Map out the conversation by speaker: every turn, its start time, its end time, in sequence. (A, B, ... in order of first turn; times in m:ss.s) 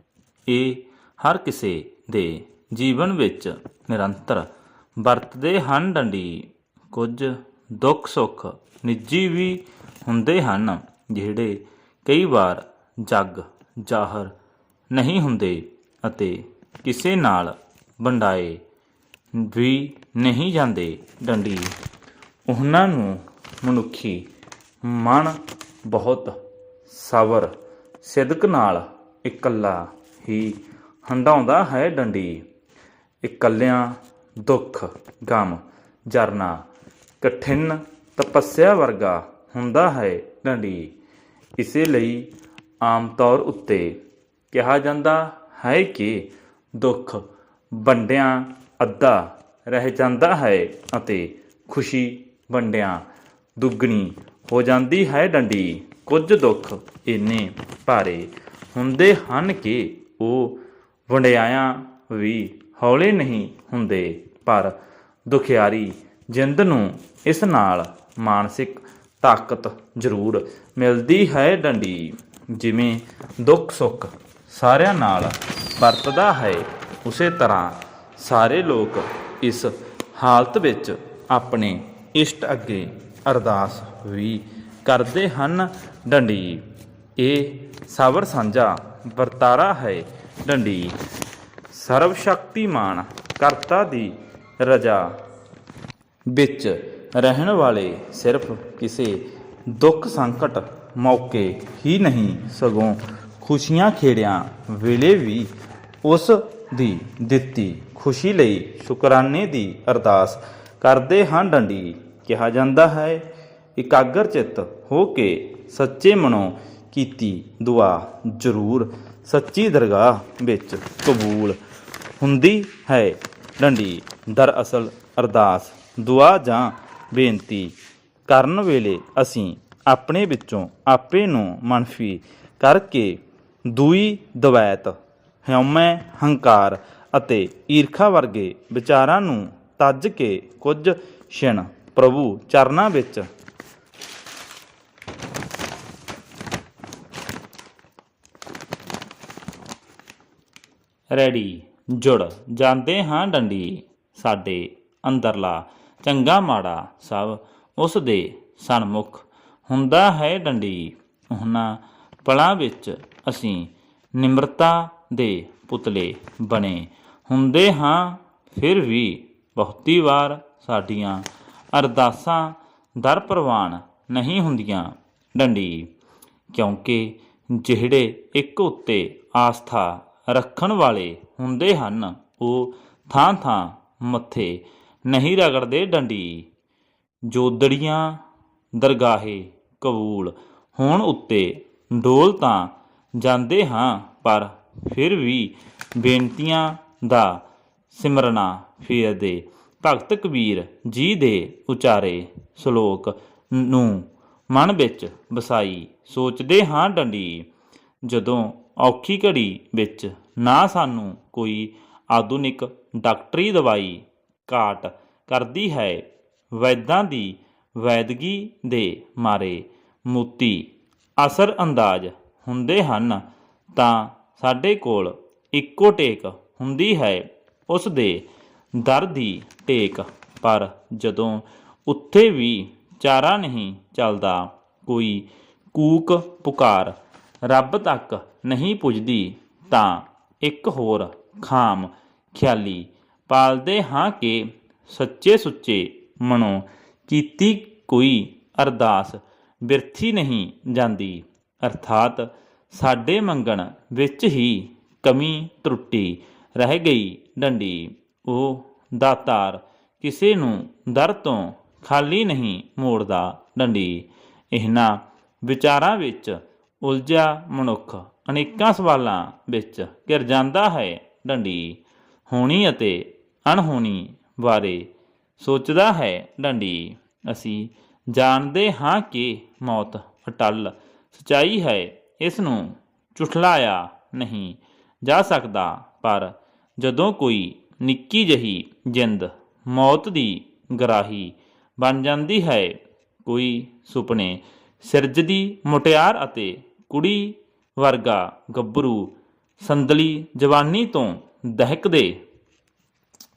0:00.5-0:14.3 A
0:14.9-0:18.6 A
0:19.3-0:21.7 A
0:22.5-0:24.3 A
0:24.8-0:26.4 A
0:26.9-0:32.4 A
0:33.2-0:36.6 A
0:37.2-0:40.9 A
0:41.6-0:42.3 A
0:42.8-0:44.0 A
0:44.5-0:53.0 A
0:53.6-1:04.7 A
1:05.3-1:26.6 A
1:27.2-1:31.0 A
1:31.7-1:35.1 A
1:36.3-1:45.5 A
1:46.0-2:01.6 A
2:02.2-2:07.7 A
2:08.3-2:23.3 A
2:31.1-2:55.9 A
2:56.5-3:06.5 A
3:07.2-3:08.2 A
3:08.7-3:27.5 A
3:28.0-5:02.2 A